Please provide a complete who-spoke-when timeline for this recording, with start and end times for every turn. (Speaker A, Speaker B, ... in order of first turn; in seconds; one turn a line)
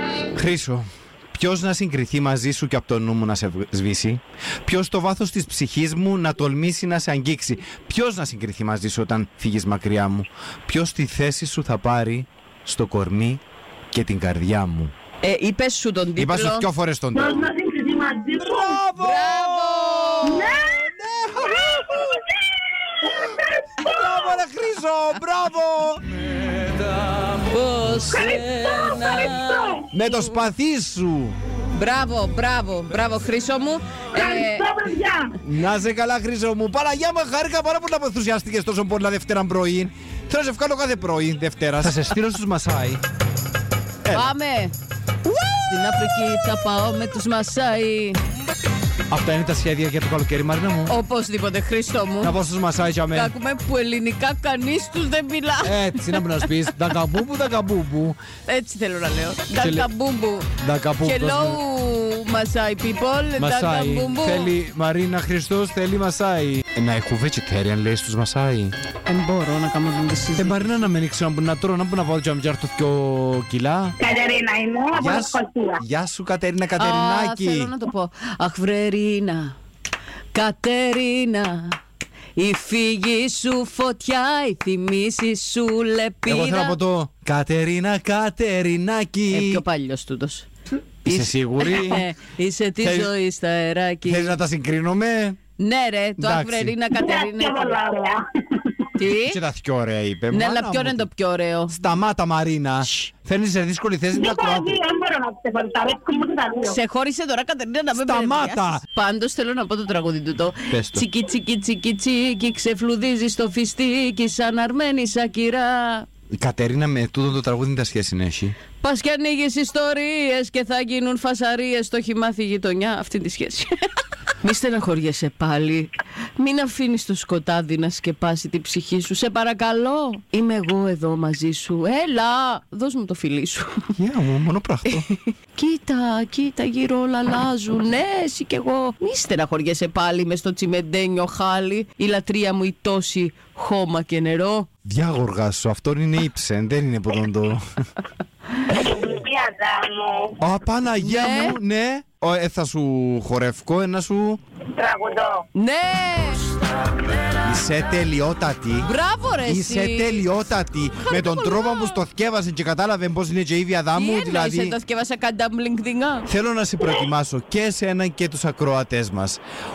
Speaker A: 0.3-14.9
Speaker B: 15.2-16.6
Speaker A: 16.2-17.5
Speaker C: 17.1-18.8
Speaker A: 18.4-22.0
Speaker B: 18.9-20.5
Speaker C: 20.2-20.8
Speaker C: 21.5-24.3
Speaker A: 23.8-26.0
Speaker B: 27.4-30.4
Speaker C: 28.0-29.8
Speaker A: 29.9-31.4
Speaker B: 31.7-34.7
Speaker C: 34.1-35.4
Speaker A: 35.4-43.0
Speaker A: 44.0-44.3
Speaker B: 44.1-44.7
Speaker B: 45.5-48.2
Speaker A: 49.1-50.9
Speaker B: 50.9-52.3
Speaker A: 52.2-53.3
Speaker B: 53.1-56.5
Speaker A: 55.6-58.2
Speaker B: 58.5-64.5
Speaker A: 59.6-59.9
Speaker A: 60.6-61.6
Speaker A: 63.4-68.7
Speaker B: 69.0-70.8
Speaker A: 70.3-74.0
Speaker C: 74.0-75.8
Speaker A: 74.9-77.7
Speaker B: 76.8-79.6
Speaker B: 80.3-81.8
Speaker B: 82.4-86.8
Speaker A: 86.2-89.6
Speaker B: 89.3-90.5
Speaker A: 91.0-92.1
Speaker B: 91.0-94.3
Speaker A: 92.8-93.1
Speaker A: 94.0-95.4
Speaker B: 95.6-97.8
Speaker A: 96.2-96.7
Speaker C: 97.0-98.9
Speaker B: 99.0-99.4
Speaker A: 99.2-101.1
Speaker B: 100.3-101.8
Speaker A: 101.7-104.8
Speaker C: 104.2-106.8
Speaker B: 106.6-116.1
Speaker A: 107.9-108.8
Speaker A: 110.7-111.0
Speaker A: 116.3-118.5
Speaker B: 118.8-123.7
Speaker B: 124.4-133.8
Speaker A: 133.9-135.1
Speaker B: 134.9-144.7
Speaker A: 144.8-147.6
Speaker C: 148.7-150.4
Speaker A: 150.4-154.4
Speaker B: 151.0-151.6
Speaker C: 154.7-155.4
Speaker B: 155.5-156.7
Speaker A: 157.4-158.9
Speaker B: 158.8-160.2
Speaker A: 159.4-164.8
Speaker B: 163.9-166.3
Speaker A: 166.3-169.4